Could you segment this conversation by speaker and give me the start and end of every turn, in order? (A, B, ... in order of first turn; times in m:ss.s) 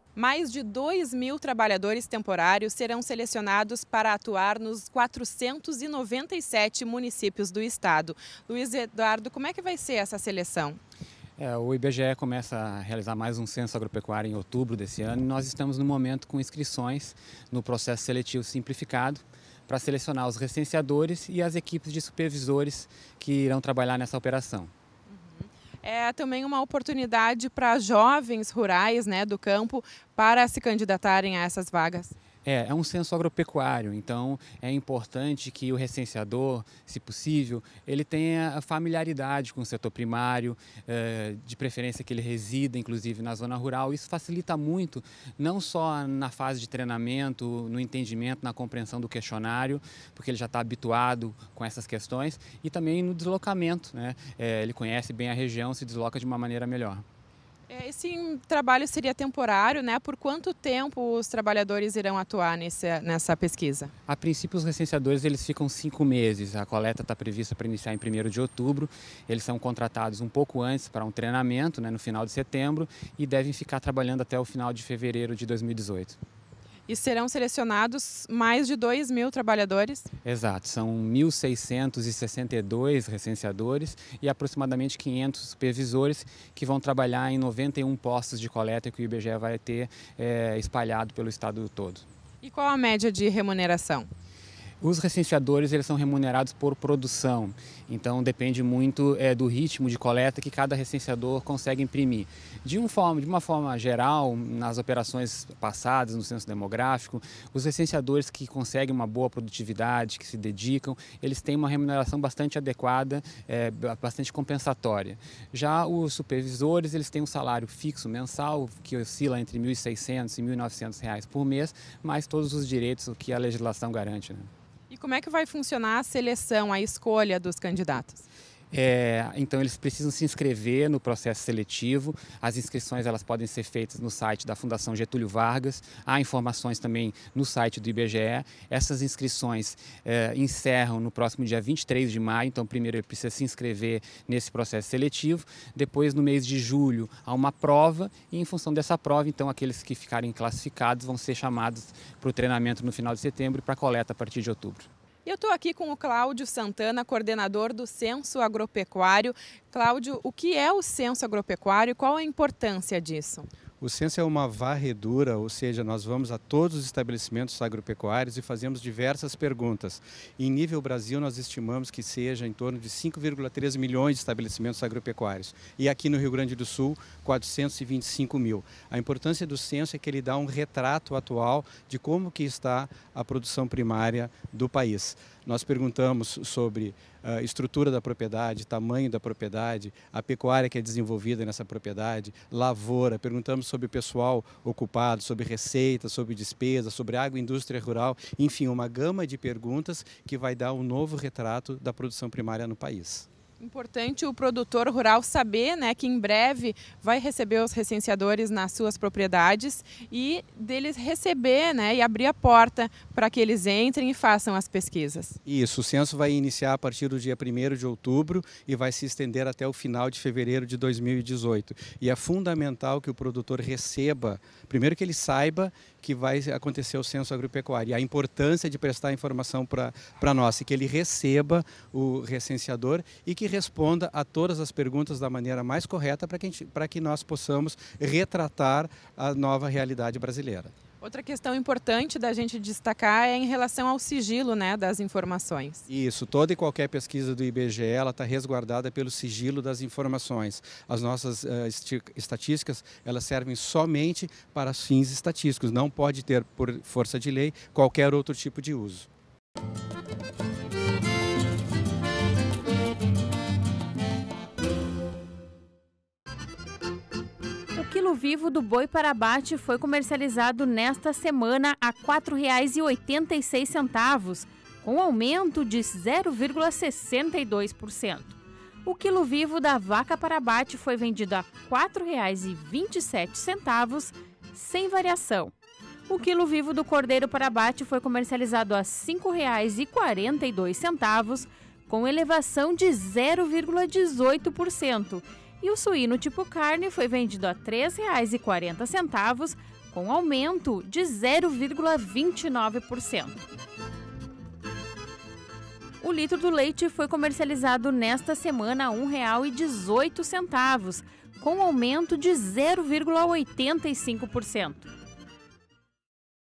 0:00.1-0:10.8 A
0:11.4-0:24.7 B
0:25.1-0:32.1 A
0:32.4-0:57.0 B
0:57.7-1:03.9 A
1:04.1-1:16.2 B
1:16.9-1:20.1 A
1:20.2-1:32.1 B
1:32.4-1:34.1 A
1:34.8-2:04.5 B
2:04.9-2:08.2 A
2:08.7-2:34.9 B
2:35.2-2:43.5 A
2:43.8-3:23.3 C
3:23.6-3:35.4 A
3:35.4-4:00.7 C
4:01.0-4:05.8 A
4:05.9-4:19.1 C
4:27.8-4:45.5 D
4:46.1-5:03.4 D
5:06.0-5:14.9 D